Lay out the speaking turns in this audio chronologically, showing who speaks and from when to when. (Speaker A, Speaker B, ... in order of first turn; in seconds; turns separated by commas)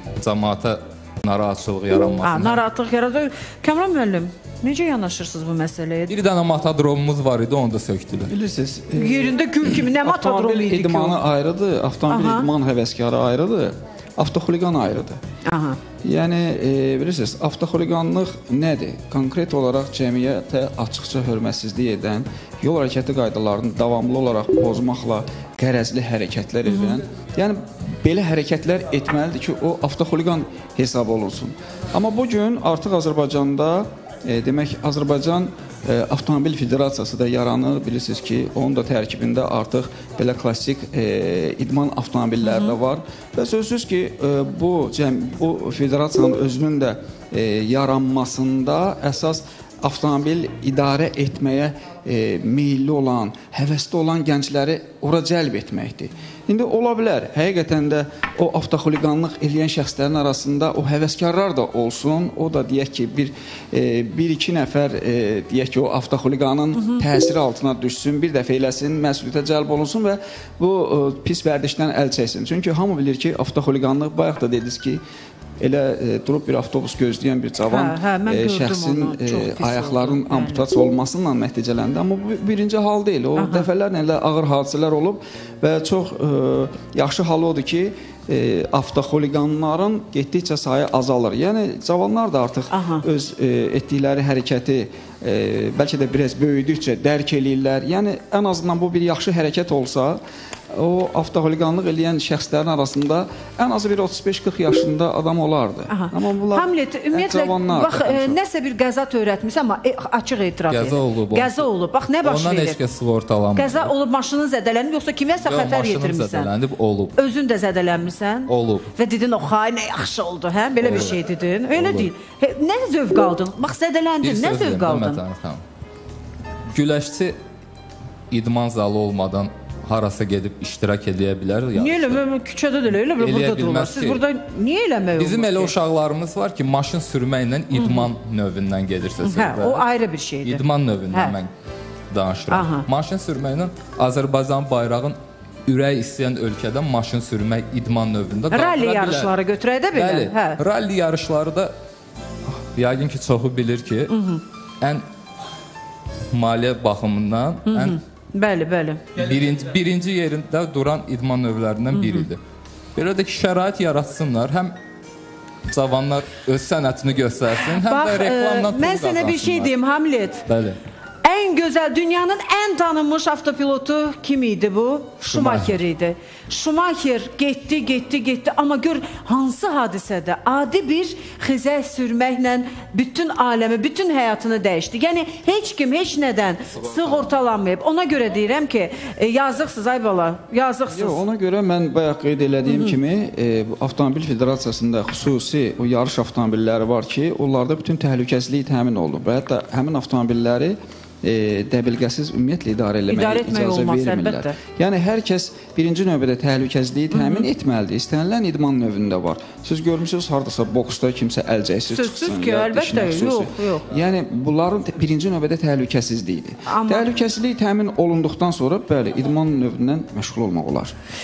Speaker A: 0.2-2.6, Speaker B: 2.2-6.1, Speaker A: 6.1-8.3, Speaker C: 8.3-15.2, Speaker B: 8.9-11.2, Speaker B: 12.1-12.5, Speaker B: 15.5-15.8, Speaker C: 16.0-75.0, Speaker B: 26.7-27.0, Speaker B: 42.4-42.8, Speaker C: 75.6-100.2, Speaker B: 77.7-80.7, Speaker B: 83.3-83.7, Speaker B: 92.7-93.0, Speaker C: 100.7-108.4, Speaker B: 105.9-112.8, Speaker A: 110.7-111.6, Speaker A: 112.2-113.9, Speaker B: 113.5-116.5, Speaker A: 115.4-117.2, Speaker B: 117.2-125.2, Speaker A: 118.5-118.9, Speaker A: 120.8-121.1, Speaker A: 121.7-122.1, Speaker A: 124.2-125.6, Speaker A: 126.7-127.3, Speaker A: 128.3-132.2, Speaker B: 131.7-135.7, Speaker A: 133.2-134.2, Speaker A: 135.2-139.9, Speaker B: 137.7-138.1, Speaker B: 139.2-141.3, Speaker A: 140.4-141.5, Speaker A: 142.1-149.3, Speaker B: 142.5-142.8, Speaker B: 148.5-150.6, Speaker A: 149.9-151.7, Speaker A: 152.7-154.1, Speaker B: 154.1-154.4, Speaker A: 156.3-158.0, Speaker B: 157.7-159.0, Speaker A: 159.1-162.4, Speaker B: 161.9-162.3, Speaker A: 162.9-164.7, Speaker A: 165.7-169.7, Speaker B: 167.7-170.4, Speaker A: 170.4-170.8, Speaker B: 171.2-191.2, Speaker A: 175.2-175.8, Speaker C: 190.9-220.9, Speaker B: 192.7-193.0, Speaker B: 203.1-204.6, Speaker B: 207.1-207.5, Speaker B: 211.9-213.8, Speaker B: 216.7-217.1